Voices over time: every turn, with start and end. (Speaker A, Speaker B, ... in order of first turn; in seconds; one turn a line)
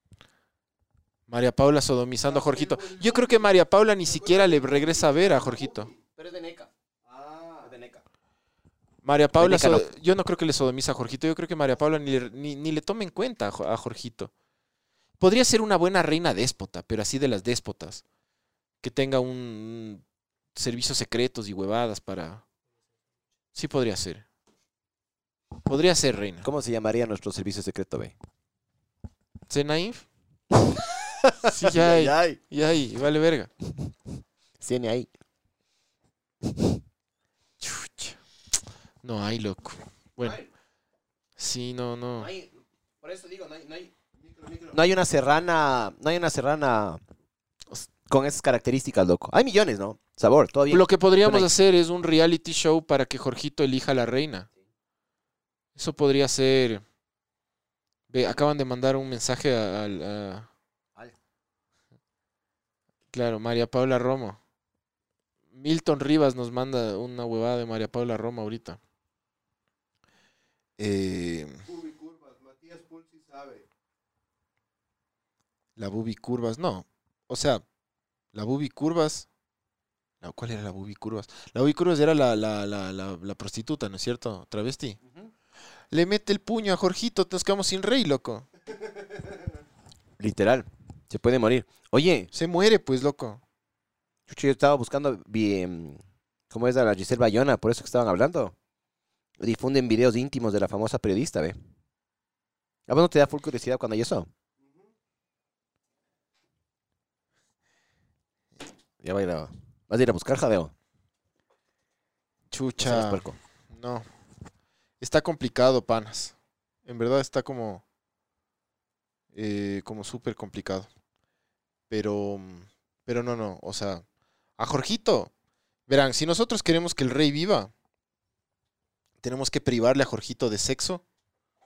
Speaker A: 1.3-5.9
Speaker B: 2.2-3.5
Speaker B: 4.1-6.0
Speaker C: 6.1-6.7
Speaker B: 7.0-7.7
Speaker C: 7.6-8.0
Speaker A: 9.0-14.3
Speaker C: 9.4-9.8
Speaker A: 15.2-18.0
Speaker A: 18.8-20.0
Speaker A: 20.5-22.4
Speaker A: 23.5-24.2
Speaker A: 25.6-26.4
Speaker C: 26.4-28.1
Speaker A: 29.5-30.0
Speaker C: 30.6-32.4
Speaker A: 31.4-33.5
Speaker C: 34.6-35.1
Speaker C: 36.4-36.8
Speaker A: 37.6-38.1
Speaker A: 39.0-40.4
Speaker C: 40.2-40.5
Speaker A: 41.4-42.3
Speaker C: 42.2-42.5
Speaker C: 43.0-43.9
Speaker B: 44.2-44.8
Speaker C: 44.7-47.0
Speaker C: 48.1-51.5
Speaker A: 50.7-54.5
Speaker A: 55.7-56.8
Speaker A: 58.1-60.5
Speaker A: 63.1-64.4
Speaker A: 65.5-68.8
Speaker A: 70.8-71.6
Speaker B: 71.7-73.7
Speaker A: 75.8-77.6
Speaker A: 78.3-79.3
Speaker A: 80.2-85.0
Speaker A: 85.9-88.5
Speaker C: 90.2-92.3
Speaker A: 92.3-93.4
Speaker C: 94.3-96.0
Speaker C: 96.5-98.5
Speaker C: 99.4-101.5
Speaker C: 102.9-104.3
Speaker C: 109.0-110.7
Speaker A: 112.5-114.0
Speaker C: 112.8-113.4
Speaker A: 115.0-116.3
Speaker A: 116.8-117.8
Speaker A: 119.3-120.9
Speaker A: 121.9-124.0
Speaker A: 124.6-125.3
Speaker A: 125.9-127.7
Speaker A: 129.2-131.0